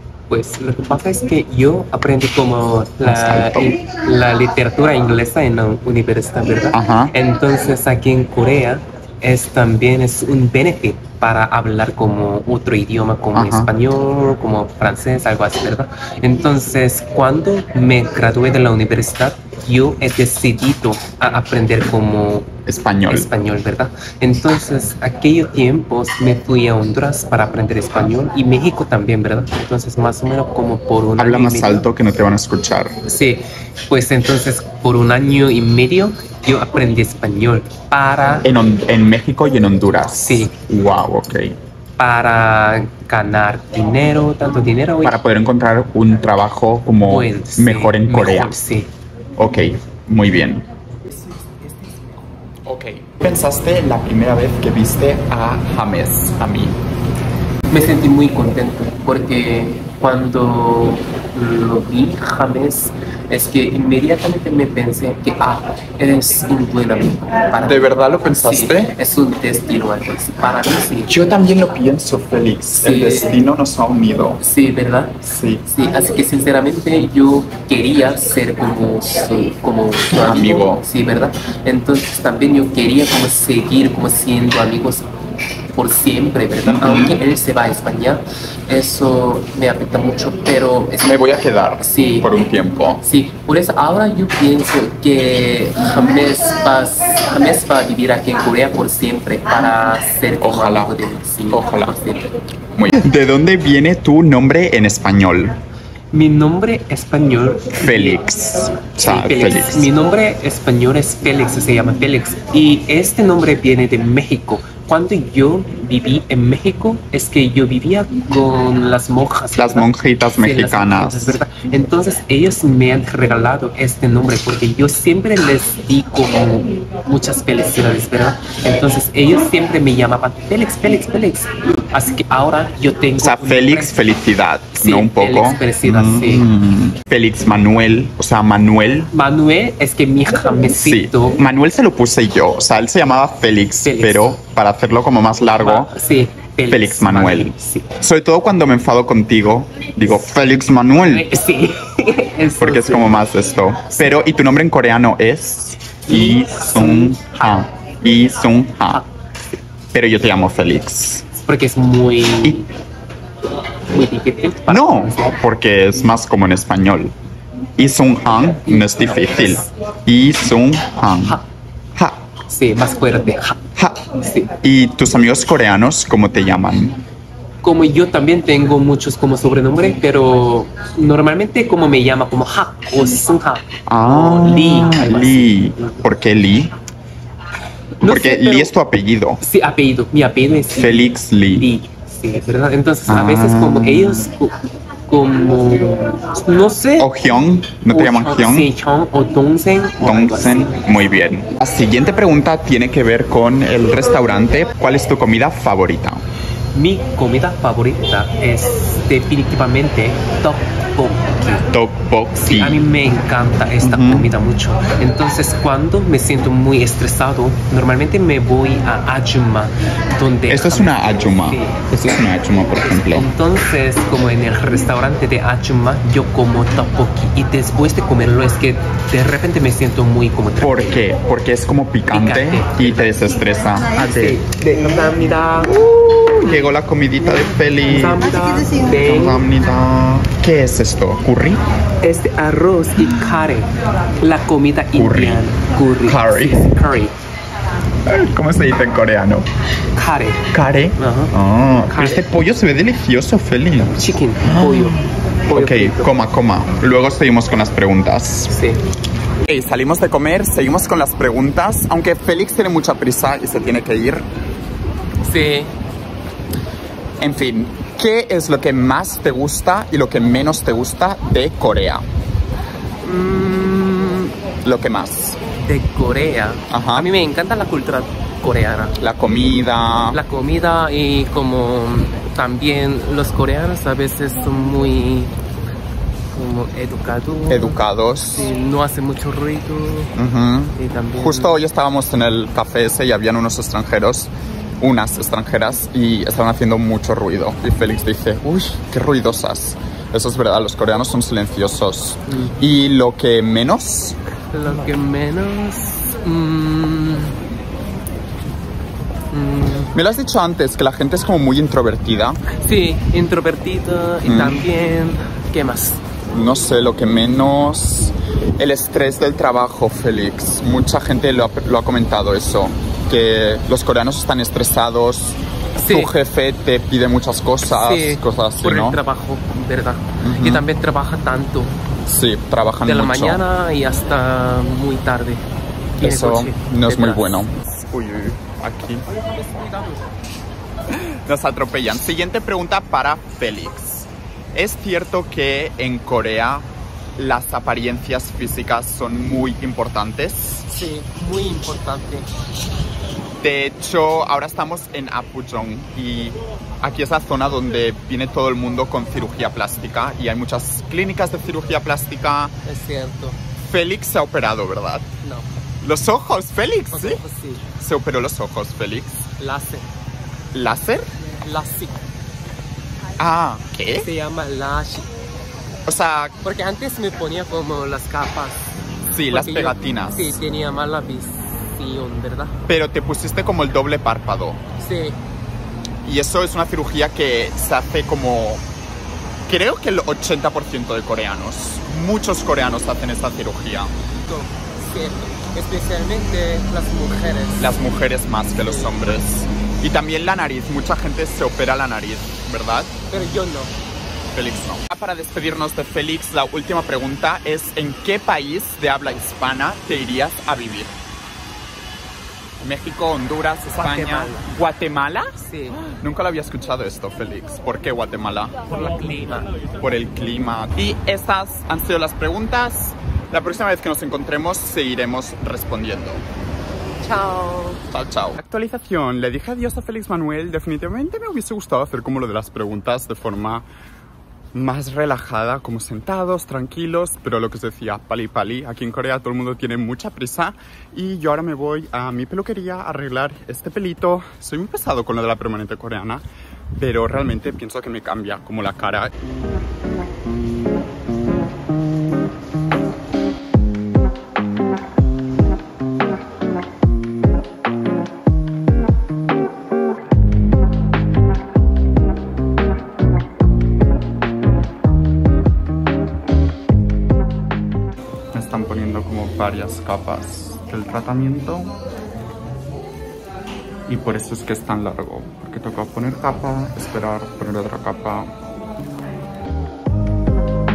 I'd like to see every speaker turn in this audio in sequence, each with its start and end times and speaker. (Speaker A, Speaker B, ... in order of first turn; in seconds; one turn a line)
Speaker A: 0.3-31.9
Speaker B: 3.0-3.8
Speaker B: 6.7-7.1
Speaker B: 13.3-13.7
Speaker B: 22.6-23.3
Speaker B: 31.2-33.0
Speaker A: 33.0-38.5
Speaker B: 38.4-41.6
Speaker A: 40.2-40.5
Speaker A: 42.0-45.2
Speaker B: 45.0-48.6
Speaker A: 47.0-48.9
Speaker B: 49.4-50.6
Speaker B: 52.6-56.8
Speaker A: 57.7-71.2
Speaker B: 67.6-69.0
Speaker B: 71.0-74.4
Speaker A: 72.8-73.4
Speaker A: 74.4-85.1
Speaker B: 75.2-75.6
Speaker B: 80.1-80.8
Speaker A: 85.7-91.2
Speaker B: 86.6-87.1
Speaker B: 91.0-93.0
Speaker A: 91.8-92.4
Speaker A: 93.0-102.3
Speaker B: 100.4-102.0
Speaker B: 102.7-105.5
Speaker A: 106.1-108.3
Speaker B: 107.8-109.9
Speaker A: 108.8-133.9
Speaker B: 119.5-121.3
Speaker B: 133.2-139.1
Speaker A: 134.8-136.5
Speaker A: 139.1-141.4
Speaker B: 140.8-145.9
Speaker A: 143.8-144.3
Speaker A: 145.6-147.9
Speaker B: 146.7-151.3
Speaker A: 150.9-153.3
Speaker B: 152.6-159.0
Speaker A: 156.1-157.7
Speaker B: 159.9-161.3
Speaker A: 161.3-162.7
Speaker A: 163.9-165.4
Speaker B: 164.7-167.1
Speaker B: 167.8-171.4
Speaker A: 168.6-169.7
Speaker B: 171.9-172.2
Speaker A: 172.5-174.5
Speaker B: 173.8-177.0
Speaker A: 177.6-186.0
Speaker B: 183.9-186.7
Speaker A: 188.0-188.7
Speaker B: 188.0-189.4
Speaker A: 189.4-197.1
Speaker B: 190.8-191.7
Speaker B: 193.1-194.3
Speaker B: 197.0-198.7
Speaker A: 197.9-200.8
Speaker B: 200.0-206.2
Speaker A: 206.7-211.7
Speaker B: 211.7-212.8
Speaker A: 212.4-221.8
Speaker B: 213.8-214.3
Speaker B: 220.5-223.3
Speaker A: 222.8-231.0
Speaker B: 230.6-234.4
Speaker A: 232.1-233.1
Speaker A: 233.9-236.7
Speaker B: 235.6-238.3
Speaker A: 237.8-239.4
Speaker B: 238.9-241.6
Speaker A: 242.0-247.2
Speaker B: 244.9-245.4
Speaker B: 246.0-246.7
Speaker B: 248.1-249.5
Speaker A: 249.9-252.3
Speaker B: 250.5-258.5
Speaker A: 253.9-256.1
Speaker A: 258.5-258.8
Speaker B: 259.4-264.2
Speaker A: 265.2-265.7
Speaker B: 267.2-272.1
Speaker A: 273.0-274.3
Speaker B: 274.6-275.4
Speaker A: 275.5-278.9
Speaker B: 276.7-277.1
Speaker B: 279.0-280.2
Speaker A: 280.1-285.3
Speaker A: 286.3-290.1
Speaker B: 287.5-288.5
Speaker B: 290.1-304.2
Speaker A: 290.8-291.6
Speaker A: 302.3-302.6
Speaker A: 304.5-307.4
Speaker A: 309.3-309.9
Speaker B: 309.9-312.4
Speaker A: 312.5-316.0
Speaker B: 314.2-314.6
Speaker B: 316.3-329.0
Speaker A: 325.8-326.1
Speaker A: 327.6-331.8
Speaker B: 330.2-330.7
Speaker B: 332.1-333.4
Speaker A: 332.8-337.4
Speaker B: 336.0-339.1
Speaker A: 339.1-340.2
Speaker B: 340.9-350.7
Speaker A: 350.7-352.3
Speaker B: 353.4-362.5
Speaker A: 362.6-363.4
Speaker B: 363.6-365.1
Speaker A: 365.2-365.5
Speaker B: 365.8-367.2
Speaker A: 366.9-367.7
Speaker B: 367.7-369.3
Speaker A: 369.4-369.9
Speaker B: 370.5-371.1
Speaker A: 371.2-372.0
Speaker B: 373.2-374.1
Speaker A: 374.0-375.1
Speaker B: 375.9-376.4
Speaker A: 376.4-382.6
Speaker B: 379.0-380.4
Speaker B: 382.7-384.6
Speaker A: 384.8-385.2
Speaker B: 386.0-388.6
Speaker B: 389.5-393.9
Speaker A: 394.2-397.8
Speaker B: 397.6-403.0
Speaker A: 398.6-399.2
Speaker A: 403.1-403.7
Speaker B: 404.3-410.9
Speaker B: 412.6-418.6
Speaker A: 413.7-414.5
Speaker A: 415.4-415.8
Speaker A: 418.7-419.5
Speaker B: 419.8-426.2
Speaker A: 427.0-427.8
Speaker B: 427.9-433.6
Speaker B: 434.5-446.2
Speaker B: 446.7-449.1
Speaker B: 468.3-471.7
Speaker B: 473.9-478.3